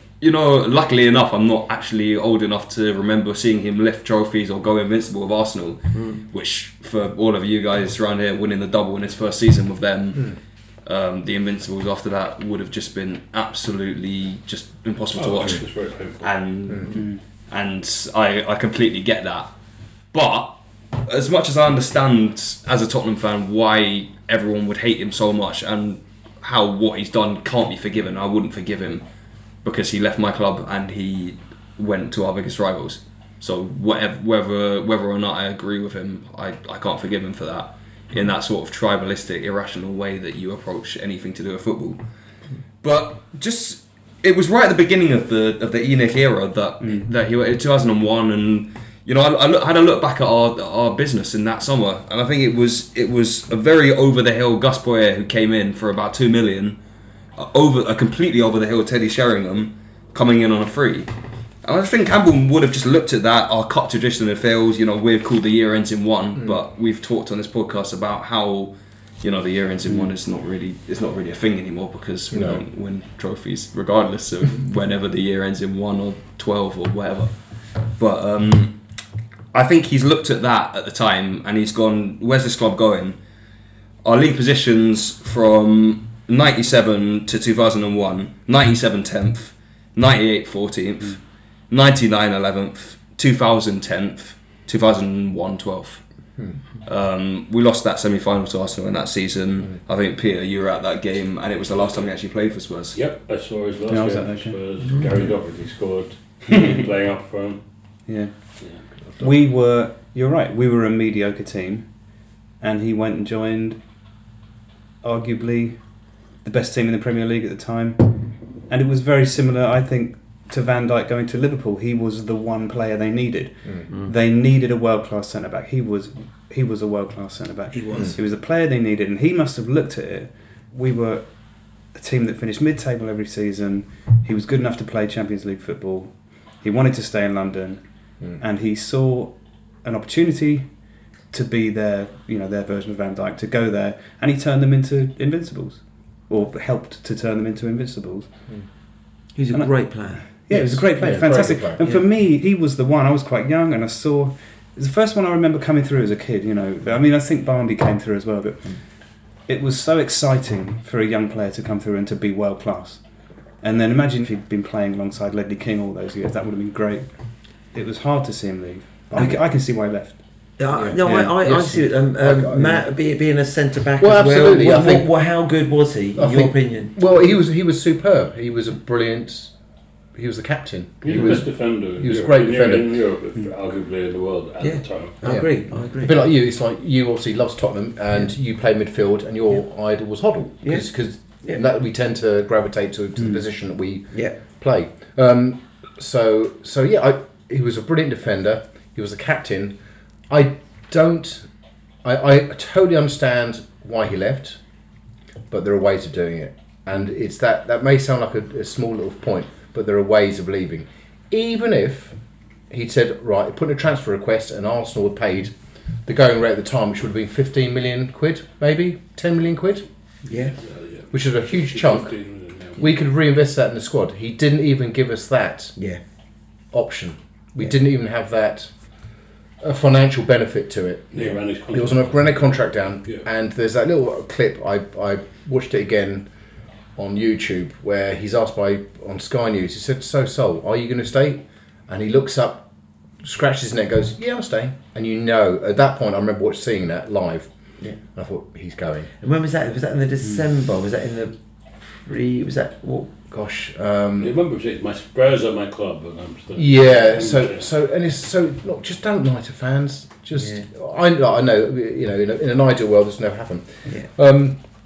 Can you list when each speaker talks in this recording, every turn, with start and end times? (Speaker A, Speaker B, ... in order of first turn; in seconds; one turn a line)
Speaker A: 0.2-19.6
Speaker B: 5.9-6.2
Speaker C: 15.1-16.4
Speaker D: 16.9-17.2
Speaker A: 20.1-29.1
Speaker A: 29.6-42.0
Speaker A: 42.8-56.8
Speaker D: 46.8-47.1
Speaker A: 57.4-78.8
Speaker E: 66.3-66.6
Speaker D: 69.8-70.1
Speaker E: 72.3-72.6
Speaker A: 79.5-83.2
Speaker A: 84.0-96.2
Speaker A: 96.8-103.0
Speaker C: 102.9-108.0
Speaker D: 103.9-104.6
Speaker D: 108.0-113.8
Speaker C: 108.6-108.8
Speaker D: 115.0-148.7
Speaker B: 123.9-124.1
Speaker B: 127.7-128.2
Speaker B: 149.3-150.2
Speaker D: 149.5-171.3
Speaker E: 150.5-151.8
Speaker B: 151.8-152.1
Speaker E: 169.1-169.4
Speaker B: 169.2-169.4
Speaker B: 170.6-176.9
Speaker E: 170.7-172.9
Speaker E: 174.0-175.2
Speaker E: 176.2-179.6
Speaker E: 180.1-183.0
Speaker C: 181.0-185.2
Speaker B: 184.6-186.2
Speaker E: 185.2-199.8
Speaker B: 190.6-191.6
Speaker E: 200.3-201.5
Speaker E: 202.0-204.6
Speaker E: 205.5-212.2
Speaker E: 212.7-219.8
Speaker B: 220.2-220.6
Speaker C: 220.6-222.8
Speaker E: 221.1-225.8
Speaker E: 226.7-236.3
Speaker C: 231.1-233.3
Speaker E: 236.9-242.7
Speaker E: 243.2-249.1
Speaker B: 249.2-253.1
Speaker E: 253.3-254.3
Speaker C: 254.2-257.7
Speaker E: 256.5-264.7
Speaker B: 260.4-260.7